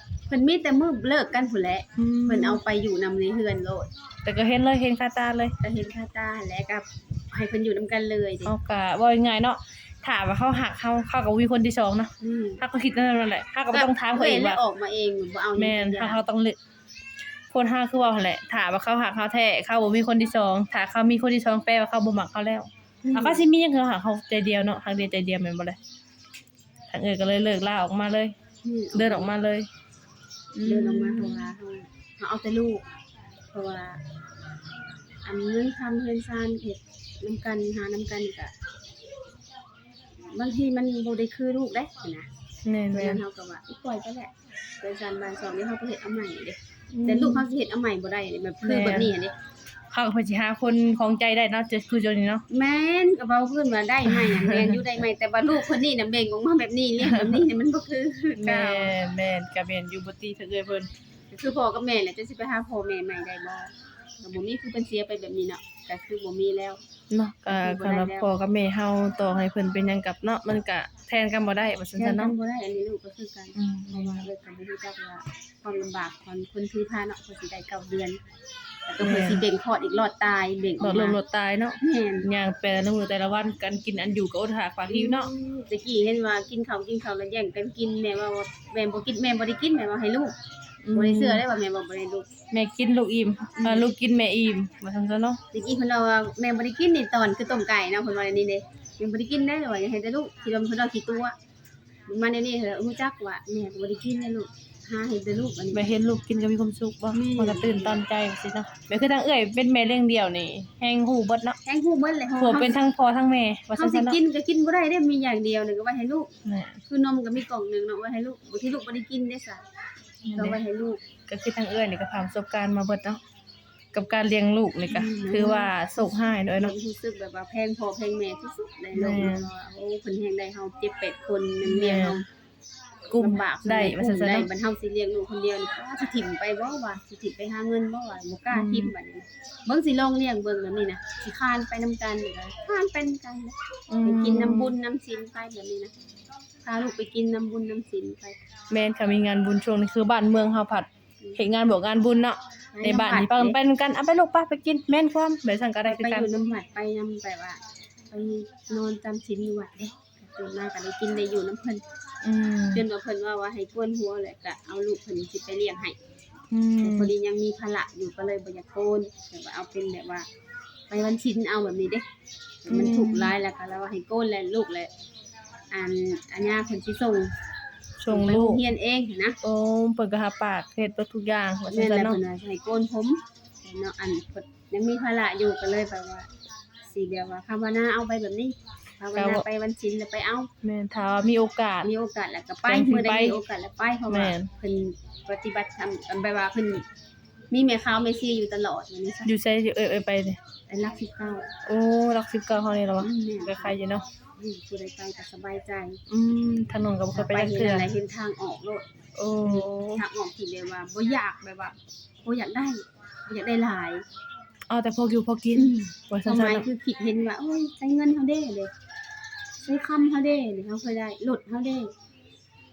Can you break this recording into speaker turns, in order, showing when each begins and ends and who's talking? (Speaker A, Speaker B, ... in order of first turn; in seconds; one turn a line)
Speaker A: 0.3-3.9
Speaker B: 2.0-2.6
Speaker B: 4.2-5.5
Speaker A: 5.6-8.5
Speaker B: 8.4-14.6
Speaker A: 12.2-12.6
Speaker A: 13.7-16.2
Speaker B: 15.6-16.6
Speaker B: 17.5-25.8
Speaker A: 23.1-23.4
Speaker B: 26.9-28.3
Speaker A: 28.6-29.3
Speaker B: 28.9-29.7
Speaker B: 30.5-31.5
Speaker A: 30.6-32.8
Speaker A: 33.5-34.0
Speaker A: 35.2-38.5
Speaker A: 40.3-42.3
Speaker B: 42.6-43.2
Speaker A: 42.9-49.3
Speaker B: 46.9-47.5
Speaker B: 48.6-49.1
Speaker B: 49.9-52.4
Speaker A: 52.5-58.9
Speaker B: 54.0-54.8
Speaker B: 57.0-57.4
Speaker B: 58.4-60.9
Speaker A: 61.3-66.8
Speaker B: 67.1-72.3
Speaker A: 67.5-68.2
Speaker A: 72.0-78.2
Speaker B: 73.5-74.3
Speaker A: 78.9-81.2
Speaker B: 79.0-79.4
Speaker B: 80.8-85.6
Speaker A: 81.8-82.3
Speaker A: 84.9-90.3
Speaker B: 90.8-91.4
Speaker A: 90.9-92.2
Speaker B: 92.5-95.4
Speaker A: 93.6-93.9
Speaker A: 95.5-101.3
Speaker A: 102.1-105.9
Speaker B: 105.7-111.6
Speaker A: 107.1-108.0
Speaker A: 111.6-112.8
Speaker B: 112.4-114.2
Speaker A: 113.8-116.3
Speaker B: 116.4-116.8
Speaker A: 116.9-119.6
Speaker B: 120.2-120.6
Speaker A: 120.3-121.0
Speaker B: 121.3-123.2
Speaker B: 123.9-126.7
Speaker A: 124.9-125.7
Speaker A: 126.6-132.2
Speaker B: 128.9-129.5
Speaker B: 131.6-132.2
Speaker B: 133.1-134.5
Speaker A: 133.2-145.9
Speaker B: 138.5-138.9
Speaker B: 143.9-144.7
Speaker A: 146.6-148.3
Speaker B: 148.7-156.3
Speaker A: 152.7-153.6
Speaker A: 155.8-157.6
Speaker A: 158.1-161.8
Speaker B: 162.2-162.8
Speaker A: 162.7-165.9
Speaker B: 166.5-167.1
Speaker A: 166.8-170.2
Speaker A: 170.9-172.0
Speaker A: 172.6-174.9
Speaker B: 172.7-173.3
Speaker A: 175.7-177.3
Speaker B: 178.0-178.6
Speaker A: 178.1-179.4
Speaker B: 179.4-182.2
Speaker A: 181.7-186.3
Speaker A: 186.9-190.5
Speaker B: 189.2-189.4
Speaker B: 190.6-191.9
Speaker A: 191.8-196.8
Speaker B: 192.7-193.4
Speaker B: 194.1-194.5
Speaker A: 197.5-199.3
Speaker B: 199.2-200.4
Speaker A: 200.7-201.5
Speaker B: 201.6-204.0
Speaker A: 203.0-203.8
Speaker A: 204.4-206.0
Speaker B: 206.1-207.9
Speaker A: 207.1-208.8
Speaker B: 209.2-210.0
Speaker A: 209.4-214.0
Speaker B: 214.7-216.7
Speaker A: 215.6-218.7
Speaker A: 219.6-221.9